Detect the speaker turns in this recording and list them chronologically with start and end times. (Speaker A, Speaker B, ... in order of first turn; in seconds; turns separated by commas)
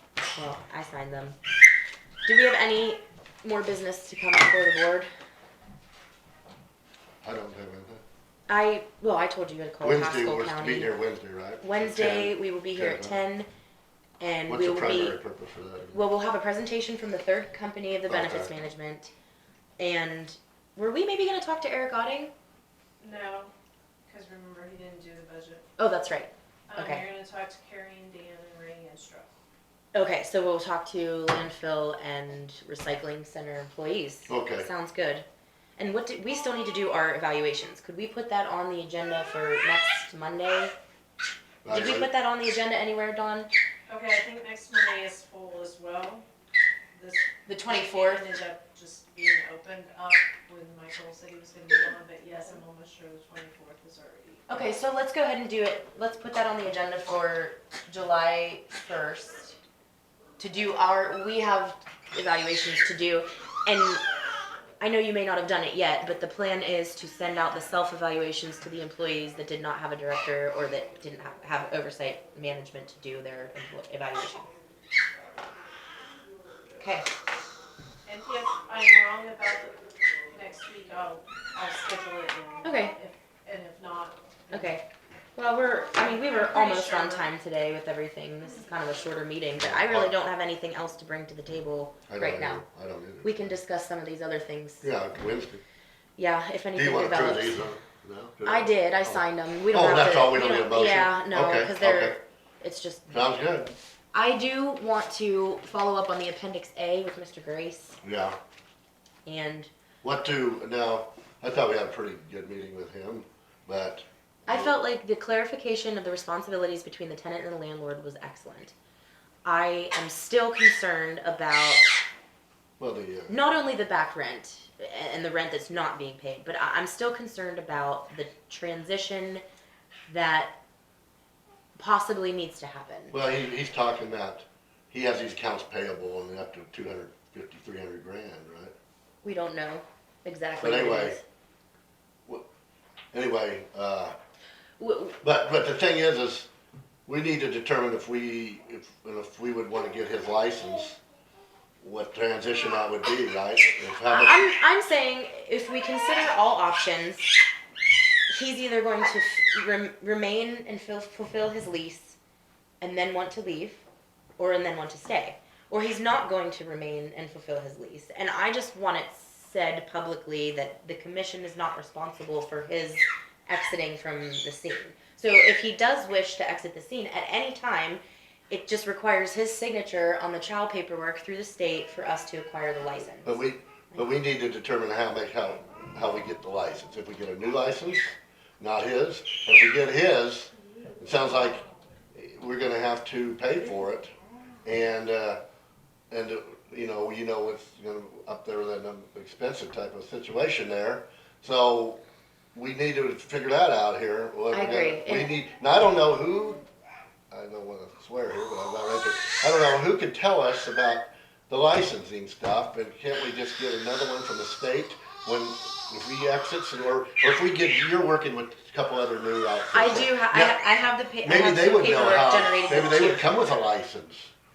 Speaker A: 0.3-1.4, Speaker A: 2.2-5.1, Speaker B: 7.2-8.0, Speaker A: 8.5-11.0, Speaker B: 9.8-13.2, Speaker A: 11.6-13.5, Speaker A: 14.2-15.2, Speaker B: 14.5-16.1, Speaker A: 15.9-19.1, Speaker B: 18.1-18.5, Speaker A: 19.8-22.3, Speaker C: 23.0-23.5, Speaker C: 24.1-25.7, Speaker A: 25.8-27.1, Speaker C: 26.7-29.3, Speaker A: 29.9-35.3, Speaker B: 34.3-34.7, Speaker A: 35.8-40.7, Speaker B: 41.6-42.1, Speaker A: 41.7-43.5, Speaker C: 43.9-46.2, Speaker C: 46.9-54.6, Speaker A: 47.5-48.3, Speaker A: 54.5-59.6, Speaker A: 60.4-64.0, Speaker A: 64.8-74.5, Speaker A: 76.8-77.1, Speaker C: 78.1-84.8, Speaker A: 82.6-83.0, Speaker A: 84.5-84.8, Speaker A: 85.4-92.6, Speaker C: 85.9-87.3, Speaker B: 89.6-90.1, Speaker B: 92.1-93.5, Speaker A: 93.2-94.9, Speaker B: 94.8-95.6, Speaker A: 96.2-97.6, Speaker B: 96.8-102.2, Speaker A: 98.5-103.3, Speaker B: 103.1-103.7, Speaker A: 104.1-108.0, Speaker B: 108.0-108.4, Speaker A: 109.3-109.7, Speaker B: 110.0-114.7, Speaker A: 114.5-118.7, Speaker A: 119.5-121.8, Speaker B: 122.8-123.3, Speaker A: 123.3-129.4, Speaker A: 130.1-130.6, Speaker A: 131.8-133.2, Speaker B: 133.1-138.7, Speaker A: 139.2-141.2, Speaker B: 140.6-141.2, Speaker B: 143.1-144.1, Speaker A: 144.8-145.2, Speaker B: 145.2-146.5, Speaker B: 147.1-151.0, Speaker B: 151.8-154.5, Speaker A: 154.1-157.3, Speaker A: 158.3-162.2, Speaker A: 162.8-163.8, Speaker A: 164.4-183.4, Speaker B: 183.2-194.1, Speaker B: 194.7-195.4, Speaker B: 196.1-202.0, Speaker B: 202.5-206.6, Speaker A: 204.5-205.3, Speaker B: 207.3-220.7, Speaker A: 219.7-223.3, Speaker B: 221.2-224.3